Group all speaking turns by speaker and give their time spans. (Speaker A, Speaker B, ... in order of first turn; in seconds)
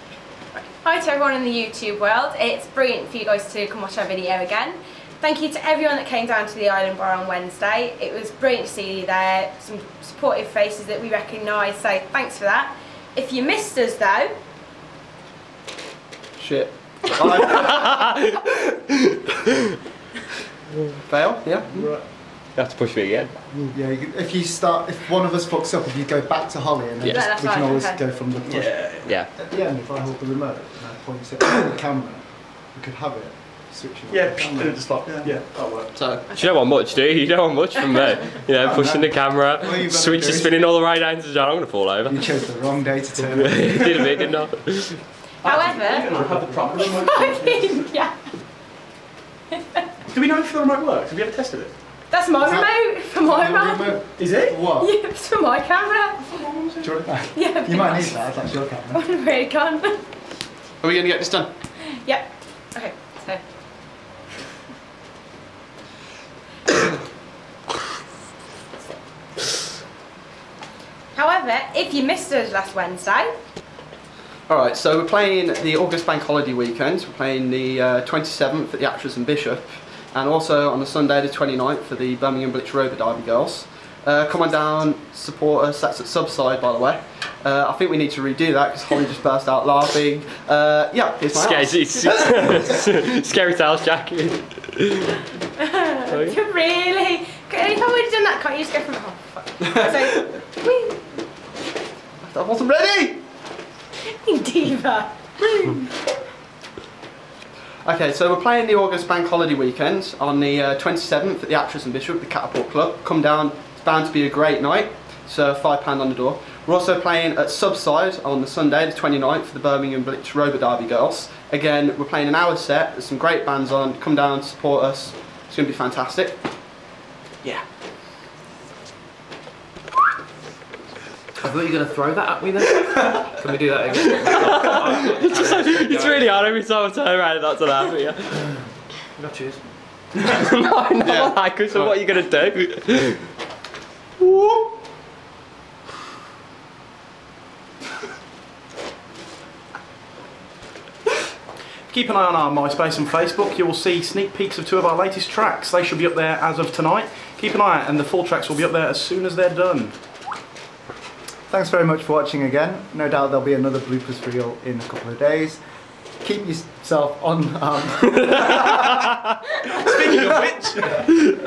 Speaker A: 0.5-14.3, 27.1-28.0, 37.9-38.1, 45.4-46.1, 46.7-48.3, 49.5-49.9, 52.1-54.2, 54.8-56.3, 57.3-58.2, 58.9-60.0, 61.8-63.4, 71.1-73.3, 95.6-101.0, 104.1-105.8
Speaker B: 16.4-17.2, 21.1-21.9, 36.0-36.3, 39.6-40.6, 60.8-61.5, 74.5-92.1, 102.2-103.2, 107.8-126.4, 141.0-141.9
Speaker C: 17.2-17.7, 21.7-22.1, 23.7-34.9, 38.6-39.1, 42.1-44.1, 46.1-46.6, 52.4-54.9, 56.8-59.0, 161.5-165.6, 166.2-168.6
Speaker D: 17.5-18.9, 22.5-23.4, 29.1-29.3, 36.3-42.3, 43.3-45.0, 91.3-95.2, 96.1-96.4, 134.0-138.5, 140.3-143.2, 168.2-168.8
Speaker E: 28.4-29.1, 34.1-36.0, 45.4-47.9, 50.1-51.7, 54.2-54.6, 56.2-56.9, 151.9-159.9, 169.8-171.0
Speaker F: 131.4-136.4, 139.2-139.6